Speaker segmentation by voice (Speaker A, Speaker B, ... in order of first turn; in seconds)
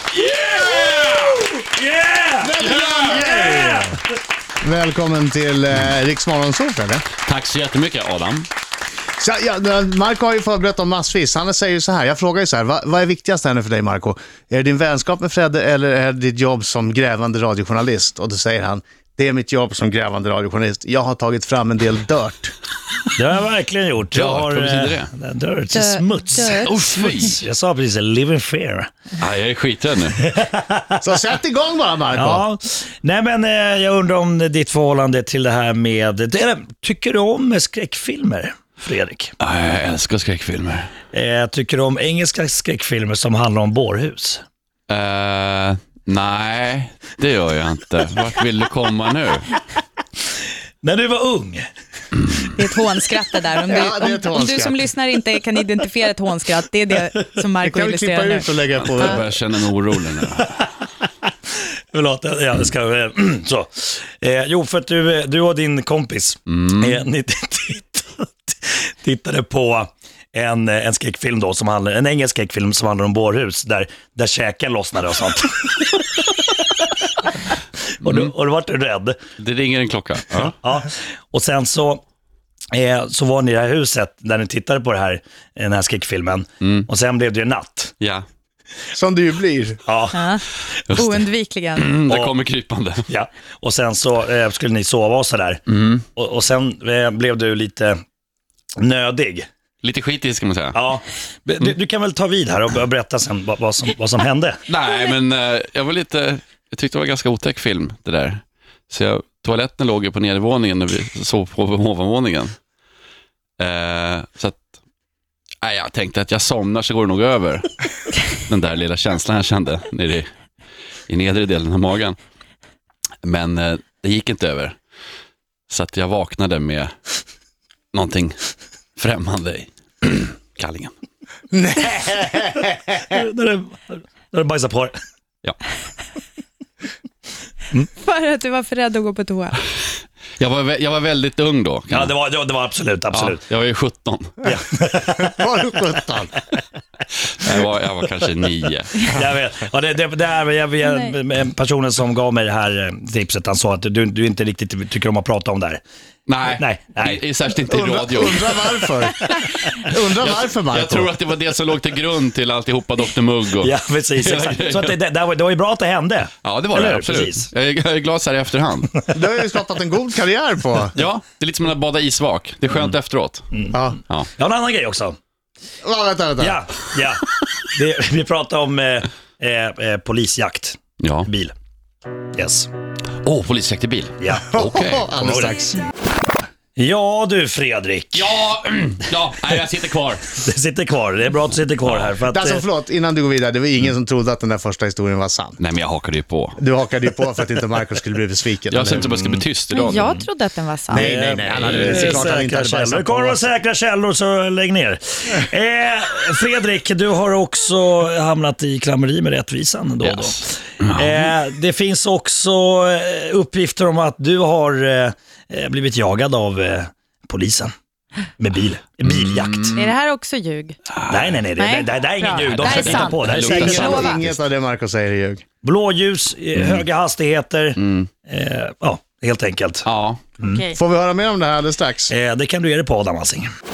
Speaker A: 0.1-4.0, 23.1-28.9, 30.2-31.0, 32.1-39.3, 41.1-44.4, 50.8-51.6, 60.4-76.3, 78.0-79.2, 80.5-82.0, 82.7-87.9, 89.8-90.4, 92.1-92.4, 93.1-98.0, 98.8-99.5, 100.7-104.6, 133.0-134.9, 141.9-143.4, 144.4-145.5, 149.1-155.8, 156.5-157.2, 163.6-167.5, 173.5-175.2, 176.4-181.5, 182.3-182.7, 184.2-185.6, 186.8-188.3, 190.3-192.6, 200.9-217.7, 218.4-219.8, 221.1-224.1, 225.6-229.9, 232.1-233.5
Speaker B: 0.8-1.3, 2.6-3.3, 7.2-8.5, 24.1-25.1, 26.6-27.4, 29.2-30.2, 39.4-40.9, 44.9-49.5, 58.8-60.5, 66.5-67.0, 78.0-78.3, 79.4-80.5, 86.6-86.9, 88.0-88.2, 90.9-91.2, 91.8-93.1, 95.7-96.0, 99.8-100.8, 104.7-112.5, 113.6-114.6, 115.6-120.3, 121.1-122.2, 123.2-124.8, 125.7-126.9, 127.9-128.4, 129.0-130.9, 140.4-142.1, 143.1-144.4, 147.1-149.1, 156.3-159.0, 159.9-164.9, 166.4-168.9, 170.9-173.4, 181.0-181.3, 183.2-185.1, 188.1-190.3, 191.8-192.1, 195.6-196.6, 198.7-200.1, 201.5-202.2, 210.0-211.3, 219.0-219.8, 221.0-221.4, 222.5-224.3, 226.6-226.8, 227.8-228.1, 229.8-230.2
Speaker C: 2.4-4.0, 4.6-7.0, 9.2-22.5, 31.0-32.4, 53.7-54.8, 57.6-59.2, 88.9-89.8, 131.5-133.2, 145.1-146.3, 157.6-161.1, 169.1-170.9, 173.7-174.0, 175.8-176.6, 184.5-185.8, 192.3-195.6, 196.6-199.4, 200.9-203.4, 223.4-225.4, 230.7-232.1
Speaker D: 25.7-26.7, 52.5-58.6, 90.1-91.9, 137.9-139.6, 150.8-151.1, 199.7-201.1, 219.7-220.8, 221.6-224.2, 230.4-230.8